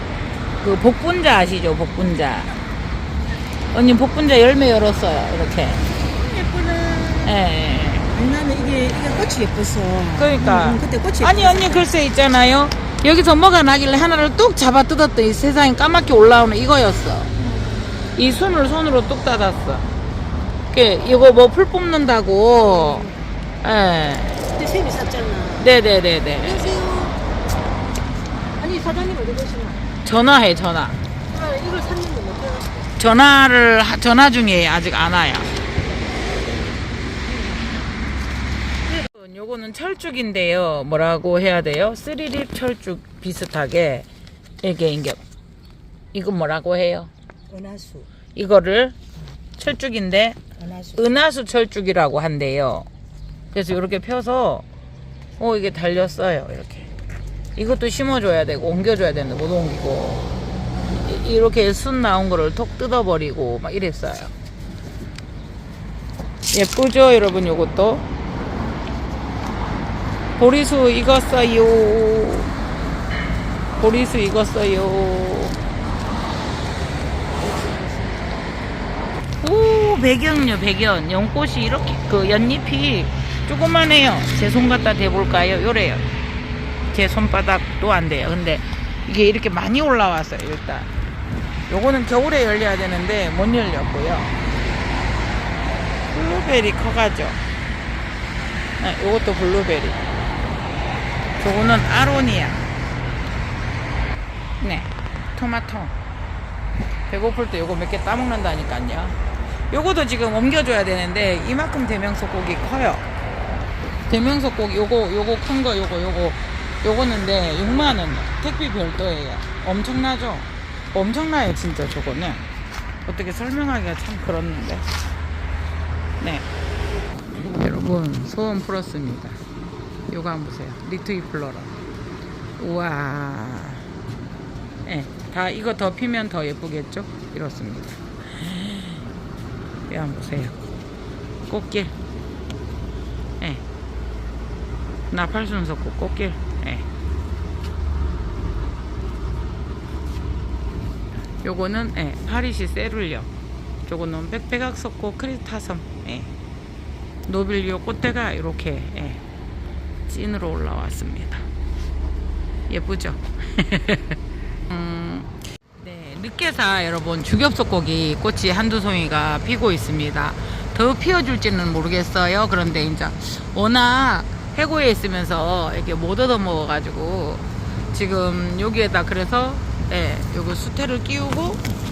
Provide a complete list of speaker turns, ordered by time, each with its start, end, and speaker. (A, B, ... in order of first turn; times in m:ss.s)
0:00.6-0:02.5 A
0:03.7-0:05.8 A
0:06.2-0:07.2 B
0:07.2-0:08.1 A
0:08.1-0:11.8 B
0:10.1-0:17.3 A
0:18.2-0:19.9 A
0:20.7-0:23.1 A
0:22.8-0:23.1 B
0:23.6-0:24.5 A
0:24.6-0:25.6 B
0:25.5-0:26.8 A
0:26.5-0:27.2 B
0:28.6-0:29.8 B
0:30.0-0:31.0 A
0:31.3-0:32.7 B
0:32.9-0:35.5 A
0:38.8-0:44.1 A
0:44.6-0:45.2 A
0:46.1-0:47.1 A
0:47.5-0:48.0 B
0:48.3-0:49.0 A
0:49.6-0:52.9 A
0:53.5-0:54.6 A
0:55.4-0:56.9 A
0:57.6-1:00.2 A
1:01.0-1:04.3 A
1:06.5-1:08.0 A
1:10.4-1:12.5 A
1:13.8-1:15.6 A
1:19.4-1:26.1 A
1:26.9-1:30.9 A
1:31.7-1:34.3 A
1:36.1-1:37.4 A
1:38.8-1:40.0 A
1:41.4-1:42.7 A
1:44.6-1:45.9 A
1:47.1-1:49.2 A
1:49.7-1:53.0 A
1:54.1-2:02.5 A
2:03.0-2:04.8 A
2:06.2-2:06.5 A
2:07.3-2:09.4 A
2:10.1-2:11.7 A
2:12.6-2:13.9 A
2:14.8-2:19.1 A
2:19.9-2:20.6 A
2:21.4-2:21.9 A
2:25.1-2:26.8 A
2:31.4-2:33.3 A
2:33.8-2:36.3 A
2:37.2-2:39.2 A
2:40.1-2:41.4 A
2:42.7-3:01.6 A